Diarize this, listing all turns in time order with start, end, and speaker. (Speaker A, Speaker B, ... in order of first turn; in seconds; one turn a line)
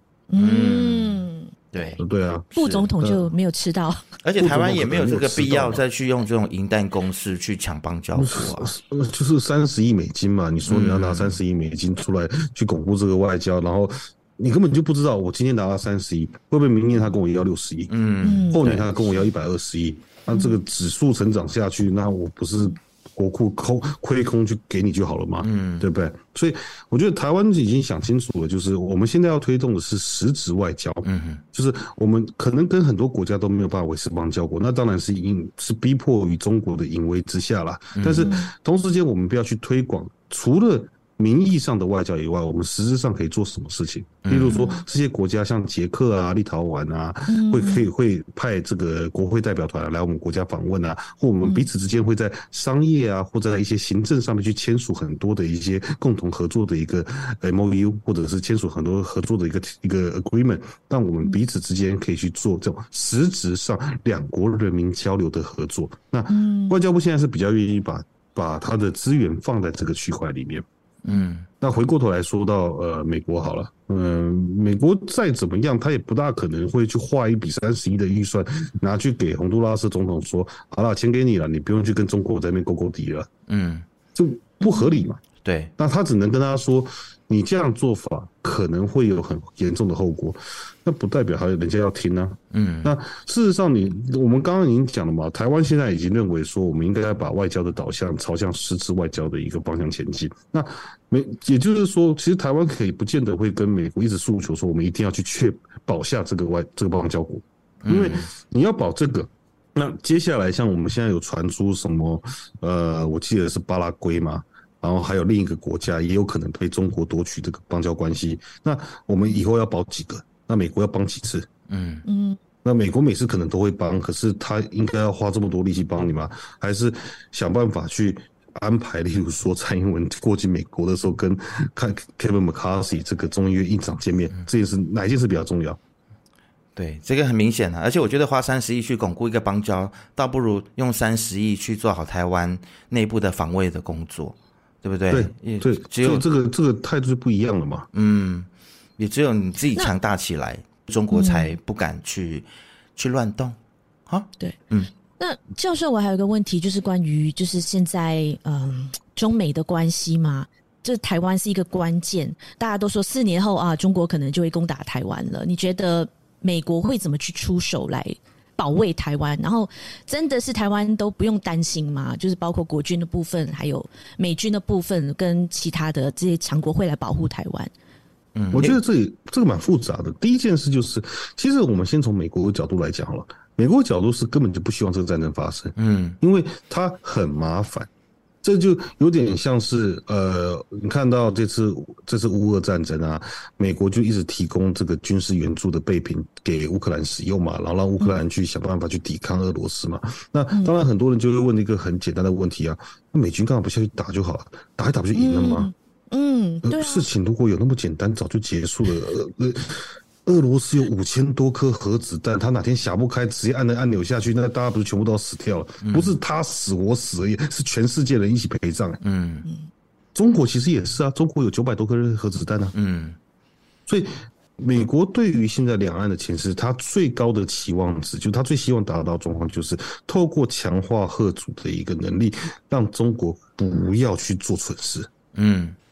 Speaker A: 0.3-1.5
Speaker B: 0.4-2.0
Speaker C: 2.0-3.3
Speaker A: 2.6-4.0
Speaker B: 4.2-8.7
Speaker C: 4.4-5.8
Speaker C: 8.2-70.7
Speaker B: 10.7-11.4
Speaker B: 17.9-18.9
Speaker A: 18.2-18.6
Speaker A: 20.3-20.6
Speaker B: 25.4-25.9
Speaker B: 31.1-31.4
Speaker B: 38.0-38.3
Speaker A: 38.2-38.5
Speaker B: 44.2-44.6
Speaker A: 44.4-44.9
Speaker A: 47.3-47.9
Speaker A: 66.3-66.8
Speaker B: 71.1-71.5
Speaker C: 71.6-83.3
Speaker B: 83.5-83.9
Speaker C: 84.2-85.2
Speaker A: 84.6-85.0
Speaker B: 85.4-85.7
Speaker C: 85.8-121.5
Speaker B: 92.5-93.0
Speaker B: 107.8-108.3
Speaker B: 121.7-122.0
Speaker A: 122.1-122.4
Speaker C: 122.6-135.8
Speaker B: 136.8-146.2
Speaker C: 145.1-147.9
Speaker B: 147.9-153.6
Speaker A: 151.1-151.5
Speaker B: 154.1-154.9
Speaker A: 155.2-177.7
Speaker B: 178.3-178.8
Speaker C: 178.5-187.9
Speaker B: 185.8-186.2
Speaker C: 188.4-205.7
Speaker A: 205.2-207.1
Speaker C: 206.6-219.0
Speaker B: 215.8-216.2
Speaker B: 219.0-219.5
Speaker C: 220.2-222.8
Speaker B: 222.8-223.2
Speaker C: 223.9-235.1
Speaker B: 235.3-235.8